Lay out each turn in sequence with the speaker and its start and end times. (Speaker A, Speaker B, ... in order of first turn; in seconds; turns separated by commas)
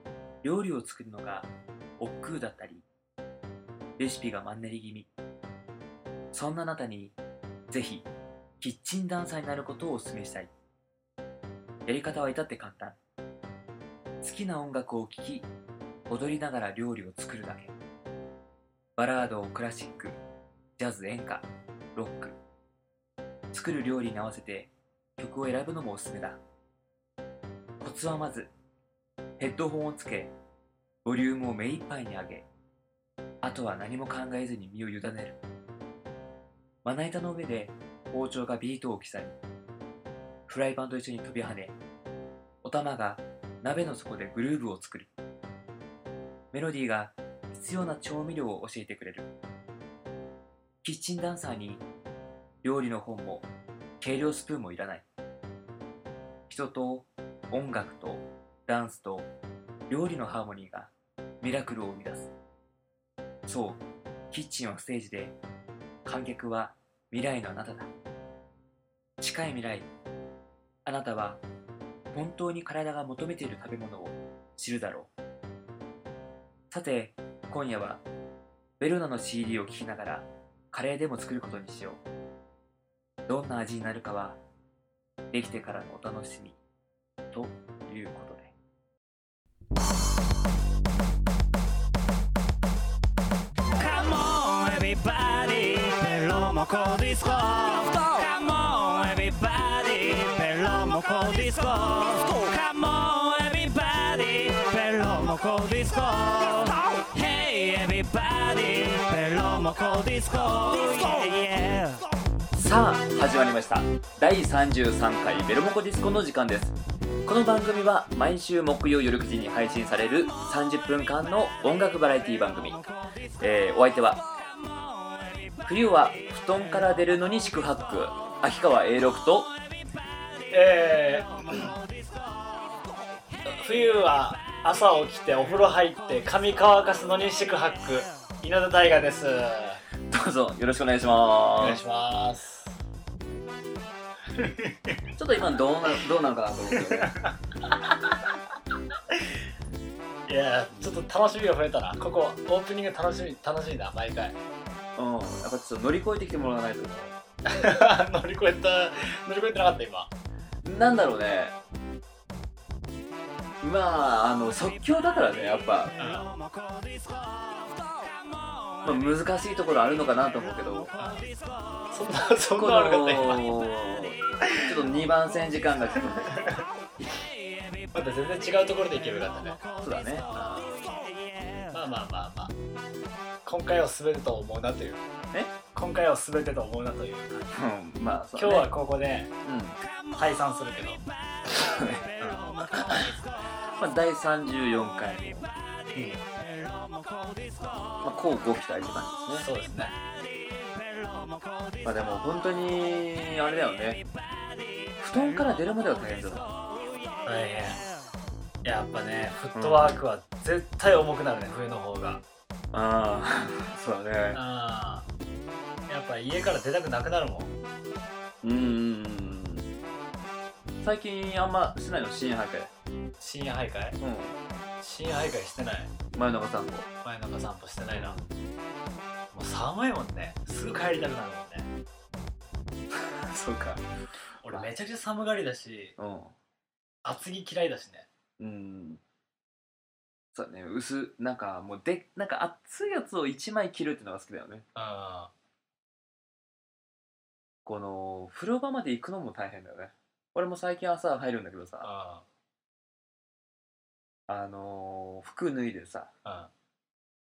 Speaker A: 0.4-2.8, Speaker A: 4.0-5.1, Speaker A: 6.3-7.2, Speaker A: 7.7-8.1, Speaker A: 8.6-10.5, Speaker A: 11.8-13.0, Speaker A: 14.2-15.5, Speaker A: 16.1-17.7, Speaker A: 19.0-20.2, Speaker A: 20.8-22.4, Speaker A: 23.5-26.4, Speaker A: 27.8-28.5, Speaker A: 29.4-30.3, Speaker A: 31.0-32.5, Speaker A: 33.4-35.4, Speaker A: 36.8-39.4, Speaker A: 40.5-41.7, Speaker A: 42.6-45.1, Speaker A: 46.5-49.3, Speaker A: 50.8-51.8, Speaker A: 52.6-53.5, Speaker A: 54.0-55.0, Speaker A: 56.5-59.3, Speaker A: 59.9-62.3, Speaker A: 63.5-65.3, Speaker A: 66.0-67.9, Speaker A: 69.2-69.9, Speaker A: 70.8-71.4, Speaker A: 72.1-75.1, Speaker A: 76.7-78.0, Speaker A: 78.8-82.0, Speaker A: 83.3-84.4, Speaker A: 85.3-86.6, Speaker A: 87.3-88.5, Speaker B: 93.8-112.0, Speaker A: 112.5-122.8, Speaker A: 123.4-124.2, Speaker A: 125.6-129.5, Speaker C: 130.5-131.7, Speaker B: 131.5-131.8, Speaker C: 133.4-139.8, Speaker A: 140.1-141.8, Speaker C: 141.6-142.8, Speaker C: 144.3-145.0, Speaker A: 145.2-147.1, Speaker C: 146.7-148.4, Speaker C: 149.1-149.4, Speaker C: 150.3-154.4, Speaker A: 154.9-157.1, Speaker C: 157.4-160.1, Speaker A: 160.6-161.5, Speaker A: 163.6-166.0, Speaker C: 166.0-166.3, Speaker B: 166.0-168.8, Speaker A: 168.8-170.9, Speaker C: 171.0-171.3, Speaker C: 171.9-173.6, Speaker A: 172.6-176.5, Speaker C: 176.1-176.7, Speaker C: 177.9-179.6, Speaker A: 179.8-180.2, Speaker C: 180.3-180.8, Speaker C: 181.7-182.5, Speaker C: 183.4-185.0, Speaker C: 185.7-187.5, Speaker A: 187.5-188.7, Speaker C: 188.3-189.3, Speaker A: 189.4-189.8, Speaker C: 190.1-191.0, Speaker A: 191.5-192.1, Speaker C: 192.2-192.6, Speaker B: 192.3-193.1, Speaker A: 192.8-193.1, Speaker A: 193.8-195.5, Speaker C: 195.9-196.2, Speaker B: 196.3-198.0, Speaker A: 198.0-199.5, Speaker C: 199.3-199.9, Speaker B: 200.5-201.8, Speaker A: 201.8-204.0, Speaker A: 205.0-206.5, Speaker C: 207.2-207.8, Speaker C: 208.6-212.2, Speaker A: 209.5-210.0, Speaker A: 212.7-214.4, Speaker C: 214.3-215.1, Speaker C: 215.9-217.5, Speaker A: 218.4-219.7, Speaker A: 220.8-222.7, Speaker C: 223.2-224.0, Speaker A: 224.0-224.3, Speaker C: 224.8-225.9, Speaker A: 226.1-226.9, Speaker C: 227.0-228.2, Speaker A: 227.9-228.3, Speaker C: 229.3-231.7, Speaker A: 233.0-233.8, Speaker C: 234.4-235.9, Speaker A: 236.0-236.3, Speaker C: 237.0-238.1, Speaker A: 238.4-239.0, Speaker A: 240.3-244.7, Speaker C: 244.7-245.3, Speaker A: 247.6-251.9, Speaker C: 251.8-252.2, Speaker A: 254.3-256.1, Speaker C: 256.2-256.5